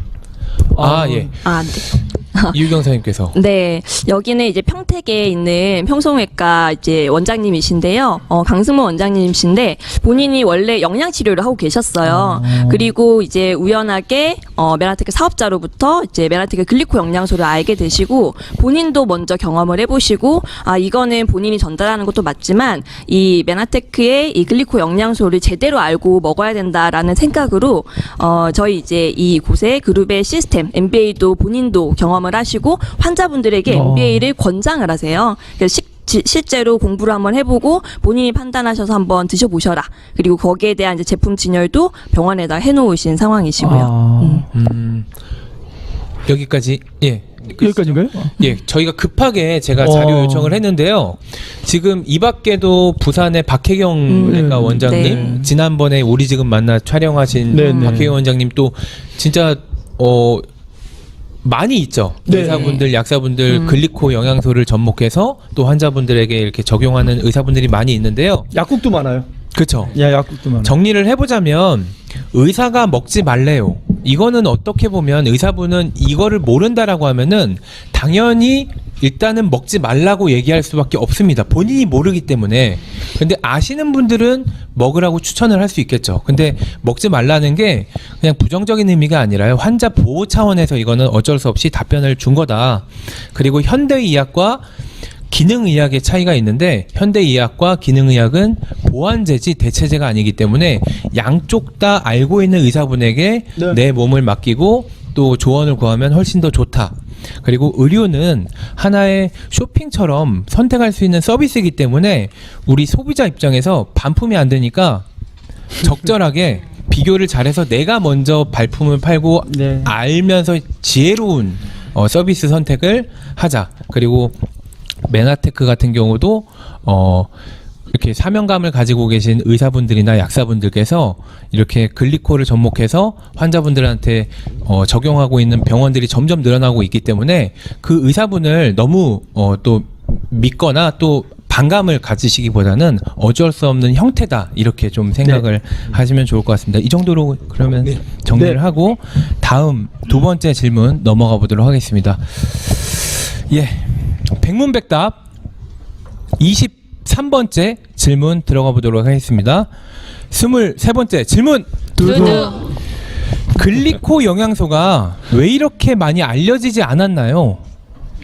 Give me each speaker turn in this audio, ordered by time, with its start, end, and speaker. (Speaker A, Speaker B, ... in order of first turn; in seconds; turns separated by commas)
Speaker A: 0.7-1.3, Speaker B: 0.8-1.3, Speaker C: 1.4-2.6, Speaker B: 2.5-3.4, Speaker C: 3.3-44.5, Speaker A: 12.1-12.7, Speaker A: 33.7-34.3, Speaker A: 43.6-44.4, Speaker B: 44.5-45.0, Speaker B: 46.2-60.5, Speaker A: 47.5-48.3, Speaker A: 49.8-50.6, Speaker C: 54.1-55.2, Speaker A: 54.1-55.5, Speaker C: 57.5-58.1, Speaker A: 57.5-58.2, Speaker B: 61.4-68.5, Speaker A: 62.3-62.8, Speaker C: 63.5-63.8, Speaker A: 68.5-69.3, Speaker B: 69.5-70.0, Speaker A: 69.9-70.7, Speaker B: 70.6-94.6, Speaker B: 95.3-115.0, Speaker B: 115.8-124.3, Speaker A: 119.5-119.9, Speaker B: 125.0-127.3, Speaker B: 127.9-155.2, Speaker A: 148.3-148.6, Speaker B: 156.4-159.7, Speaker B: 160.3-162.7, Speaker A: 162.1-162.4, Speaker B: 163.5-167.6